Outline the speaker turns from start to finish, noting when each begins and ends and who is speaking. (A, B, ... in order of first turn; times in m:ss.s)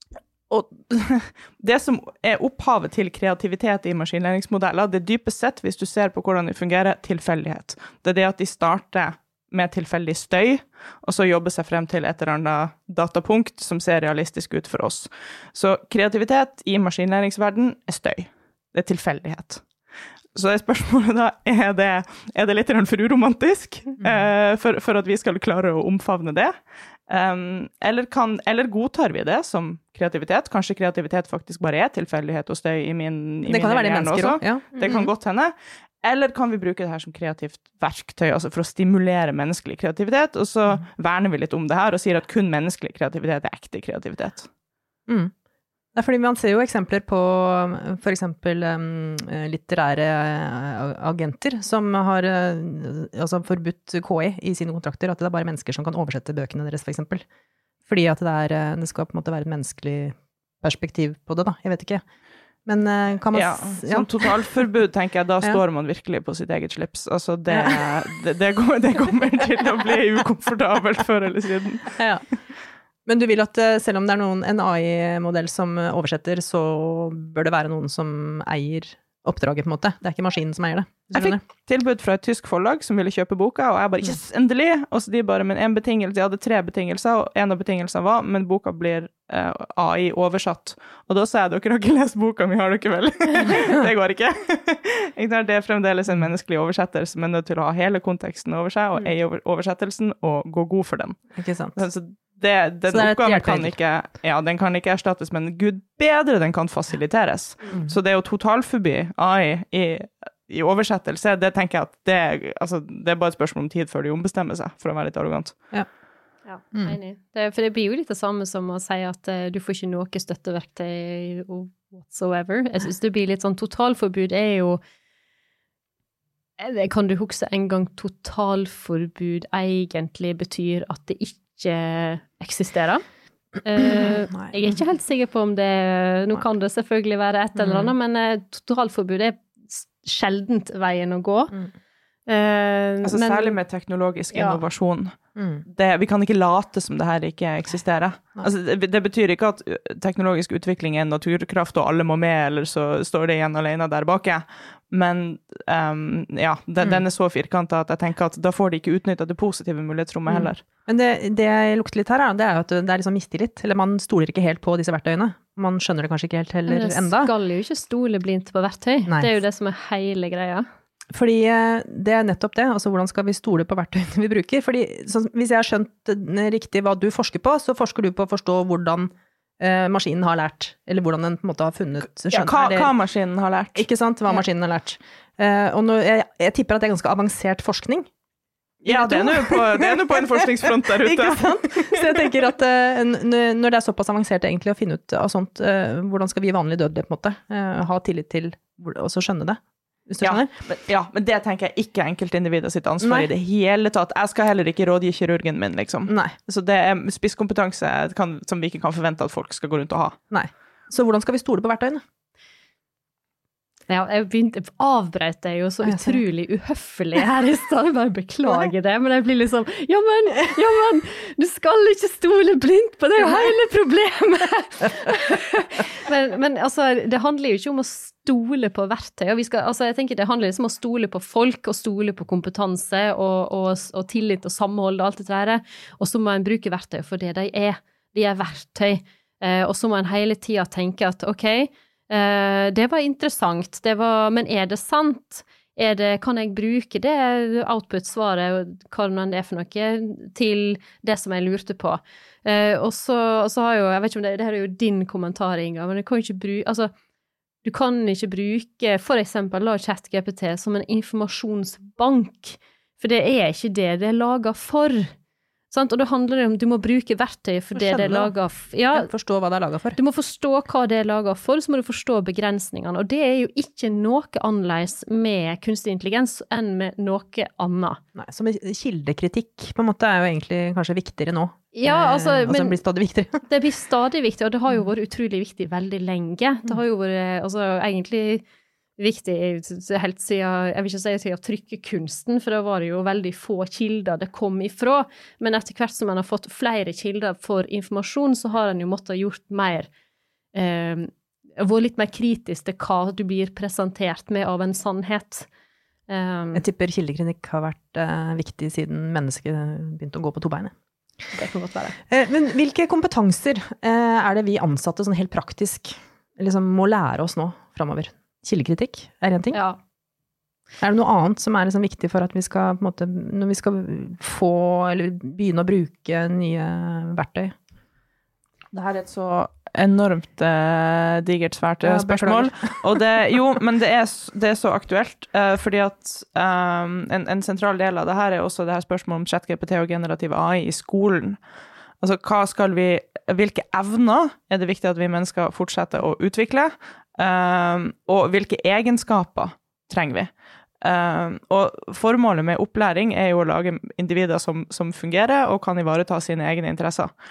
0:00.5-0:19.6 A
0:20.3-0:26.6 A
0:27.1-0:44.5 A
0:33.4-0:35.1 B
0:45.1-0:45.3 B
0:45.9-0:57.2 B
0:57.9-1:02.0 B
1:02.6-1:04.3 B
1:03.3-1:12.0 A
1:07.5-1:07.8 B
1:12.0-1:12.2 B
1:13.1-1:21.4 B
1:21.1-1:41.2 A
1:41.4-1:41.8 B
1:41.8-1:55.6 A
1:42.9-1:43.8 B
1:56.4-2:04.8 C
2:06.6-2:13.0 C
2:13.6-2:21.6 C
2:13.8-2:14.7 B
2:17.6-2:17.9 B
2:22.3-2:23.6 C
2:23.0-2:25.1 A
2:24.3-2:24.6 C
2:25.4-2:25.6 B
2:25.6-2:40.6 A
2:40.3-2:47.3 B
2:46.7-2:50.6 C
2:51.1-3:02.9 B
3:02.2-3:03.9 A
3:03.7-3:08.1 B
3:08.8-3:11.9 A
3:08.9-3:20.5 B
3:20.2-3:30.2 A
3:23.0-3:23.3 B
3:26.1-3:26.4 B
3:30.3-3:32.0 B
3:33.9-4:16.9 C
3:35.8-3:36.2 B
4:17.6-4:25.1 C
4:25.7-4:29.1 C
4:27.7-4:28.3 B
4:28.9-4:30.0 B
4:29.9-4:38.0 C
4:38.1-4:43.4 B
4:41.7-4:42.8 C
4:43.5-4:48.4 C
4:49.0-4:59.9 C
5:00.5-5:05.5 C
5:06.1-5:06.6 C
5:06.5-5:10.7 B
5:11.3-5:12.0 C
5:12.1-5:19.6 B
5:19.5-5:19.8 C
5:20.8-5:27.6 B
5:28.7-5:41.4 A
5:31.8-5:32.7 B
5:42.0-5:57.1 A